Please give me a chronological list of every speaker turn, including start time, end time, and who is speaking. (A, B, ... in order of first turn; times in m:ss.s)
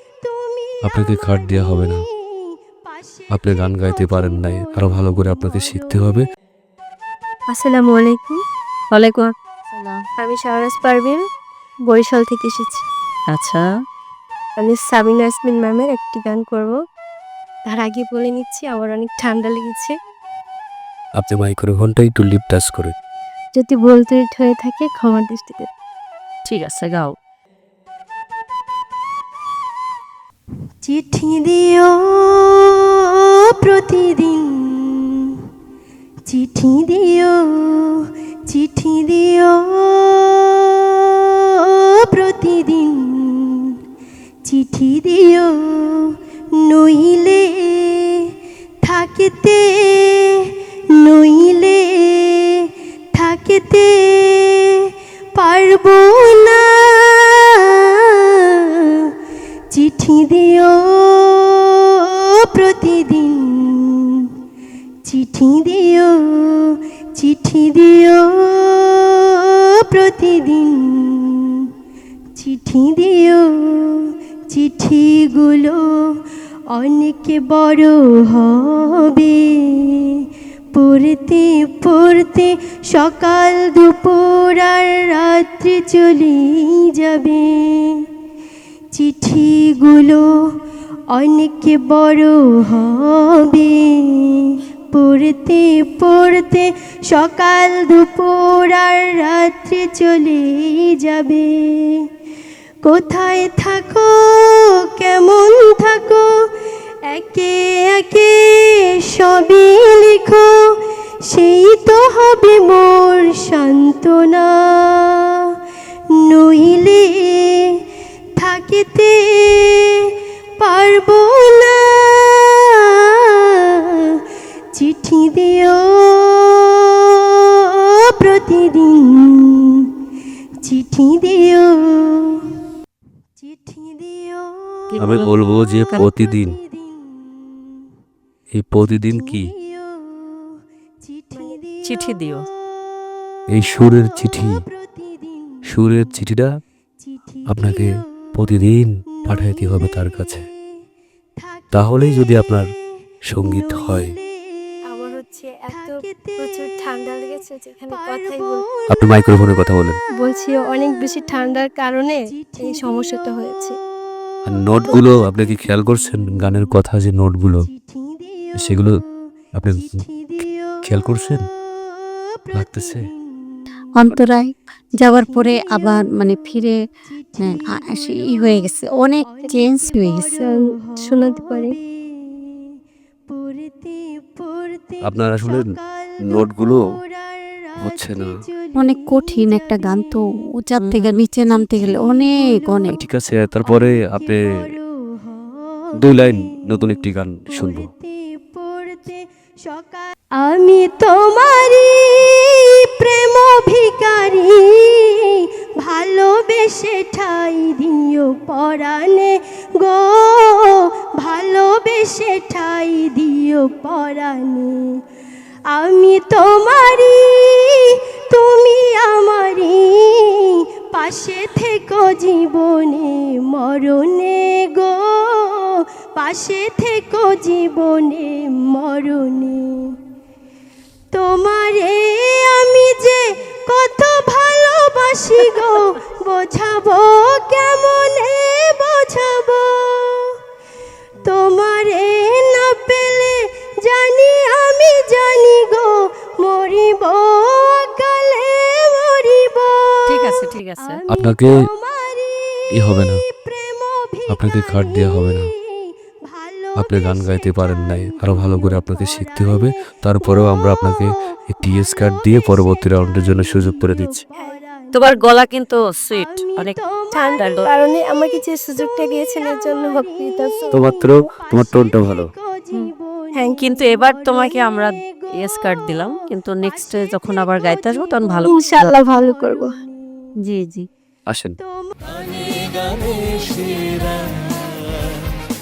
0:00.2-0:06.2 A
0:00.8-0:02.0 B
0:03.3-0:06.3 B
0:07.5-0:08.4 C
0:08.9-0:10.0 D
0:10.2-0:11.2 C
0:11.8-0:12.8 C
0:13.3-0:13.6 D
0:14.6-0:16.8 C
0:17.7-0:19.9 C
0:21.2-0:22.9 B
0:23.5-0:25.7 C
0:26.4-0:27.1 D
0:30.8-0:35.4 A
0:36.3-0:43.8 A
0:44.4-0:59.1 A
0:59.7-1:04.3 A
1:05.0-1:11.7 A
1:12.4-1:28.1 A
1:28.9-1:30.5 A
1:31.1-1:42.0 A
1:42.8-1:46.5 A
1:47.1-1:55.5 A
1:56.1-1:57.8 A
1:58.4-2:04.2 A
2:04.7-2:09.9 A
2:10.6-2:12.5 A
2:13.4-2:14.8 A
2:14.9-2:15.3 D
2:15.0-2:16.6 B
2:15.9-2:17.6 A
2:18.5-2:19.5 B
2:19.1-2:22.4 A
2:21.8-2:22.4 D
2:23.5-2:24.6 B
2:23.8-2:26.0 A
2:25.7-2:26.5 B
2:27.1-2:27.9 A
2:27.5-2:30.4 B
2:29.2-2:30.4 A
2:31.4-2:32.6 A
2:31.7-2:32.6 B
2:33.3-2:34.2 B
2:33.4-2:34.2 A
2:34.9-2:38.6 C
2:35.7-2:36.9 A
2:38.0-2:39.4 A
2:38.9-2:40.0 B
2:40.2-2:43.8 C
2:42.3-2:43.3 A
2:44.4-2:47.7 B
2:47.7-2:48.9 A
2:48.6-2:48.9 B
2:49.6-2:50.0 B
2:49.7-2:50.8 A
2:50.8-2:51.4 B
2:51.9-2:53.6 A
2:52.5-2:53.1 B
2:54.0-2:56.8 E
2:55.2-2:56.0 A
2:57.1-2:58.6 A
2:57.4-3:00.4 E
2:59.3-3:02.7 A
3:00.4-3:01.8 C
3:03.3-3:10.2 A
3:05.0-3:06.8 B
3:07.8-3:08.3 B
3:08.8-3:13.0 E
3:10.8-3:11.2 D
3:11.5-3:13.0 A
3:12.9-3:14.4 B
3:13.6-3:17.0 A
3:16.0-3:17.9 B
3:17.5-3:35.0 A
3:35.7-3:50.0 A
3:51.1-4:00.3 A
4:01.2-4:15.5 A
4:10.1-4:11.0 D
4:11.1-4:11.5 B
4:12.7-4:13.2 B
4:14.3-4:15.5 B
4:16.2-4:19.7 A
4:16.8-4:24.2 B
4:20.2-4:21.0 A
4:21.6-4:25.2 A
4:24.9-4:26.8 D
4:26.1-4:27.4 A
4:27.1-4:30.7 C
4:27.4-4:27.7 D
4:28.8-4:40.2 A
4:30.7-4:32.3 B
4:33.3-4:33.6 C
4:33.6-4:38.9 D
4:38.4-4:39.8 C
4:40.5-4:40.8 D
4:41.3-4:41.6 B
4:41.8-4:45.1 A